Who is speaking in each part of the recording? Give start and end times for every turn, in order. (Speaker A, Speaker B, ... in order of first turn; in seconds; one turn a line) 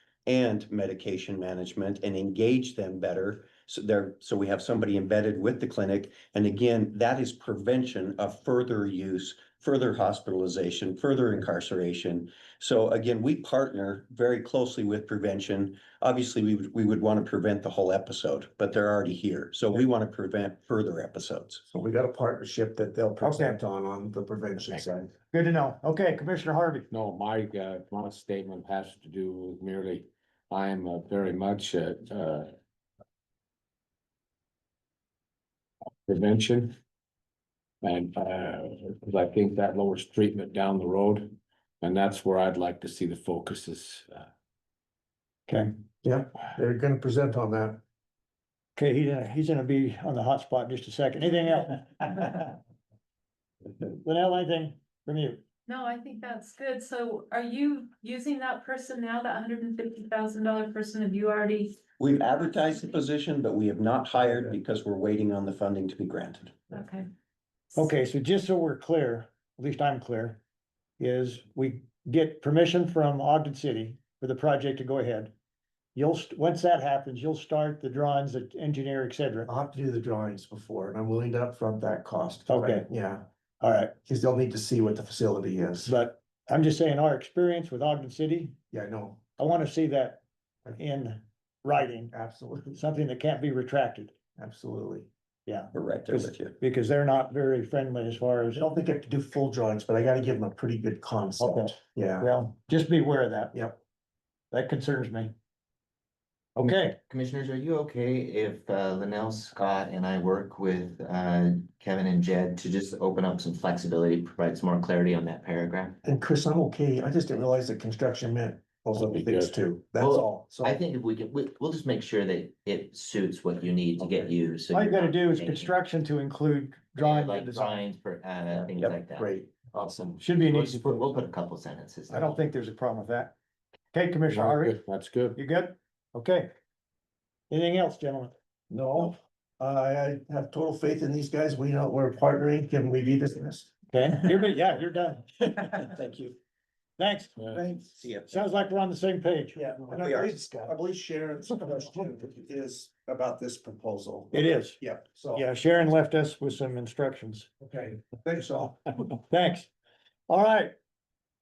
Speaker A: 0.3-21.6
Speaker B: 21.7-25.1
Speaker C: 23.2-23.6
Speaker C: 25.3-26.9
Speaker D: 26.9-32.5
Speaker D: 36.1-36.8
Speaker D: 37.8-44.3
Speaker B: 46.0-47.8
Speaker C: 48.8-52.6
Speaker C: 53.9-55.4
Speaker E: 55.7-61.8
Speaker A: 62.0-66.6
Speaker E: 62.3-62.9
Speaker B: 64.1-64.6
Speaker E: 66.7-67.1
Speaker C: 67.8-70.4
Speaker C: 71.0-75.3
Speaker C: 76.0-79.5
Speaker B: 79.5-83.3
Speaker C: 82.5-82.9
Speaker C: 83.6-83.9
Speaker B: 84.0-85.9
Speaker C: 85.8-88.6
Speaker B: 88.7-89.2
Speaker C: 89.4-90.2
Speaker C: 90.8-92.1
Speaker B: 92.1-92.8
Speaker C: 92.7-94.1
Speaker B: 94.4-95.1
Speaker C: 95.5-98.6
Speaker A: 95.7-96.5
Speaker B: 98.5-102.3
Speaker C: 101.4-103.5
Speaker B: 103.5-103.8
Speaker C: 104.5-105.3
Speaker C: 106.6-107.0
Speaker F: 106.6-116.0
Speaker B: 116.0-120.8
Speaker D: 119.0-119.5
Speaker F: 120.0-125.7
Speaker C: 124.7-127.9
Speaker F: 127.0-132.4
Speaker B: 128.5-129.7
Speaker C: 130.2-131.1
Speaker C: 132.1-133.3
Speaker C: 133.9-134.8
Speaker D: 134.3-135.4
Speaker C: 135.3-136.5
Speaker C: 137.5-138.3
Speaker B: 138.7-143.7
Speaker C: 143.9-145.8
Speaker A: 145.8-146.3
Speaker C: 147.0-147.5
Speaker B: 147.5-148.0
Speaker A: 148.0-148.4
Speaker C: 148.3-149.7
Speaker B: 149.6-155.5
Speaker A: 150.0-150.2
Speaker C: 154.3-154.8
Speaker C: 155.3-157.5
Speaker B: 157.6-158.9
Speaker C: 159.3-159.7
Speaker C: 160.3-160.7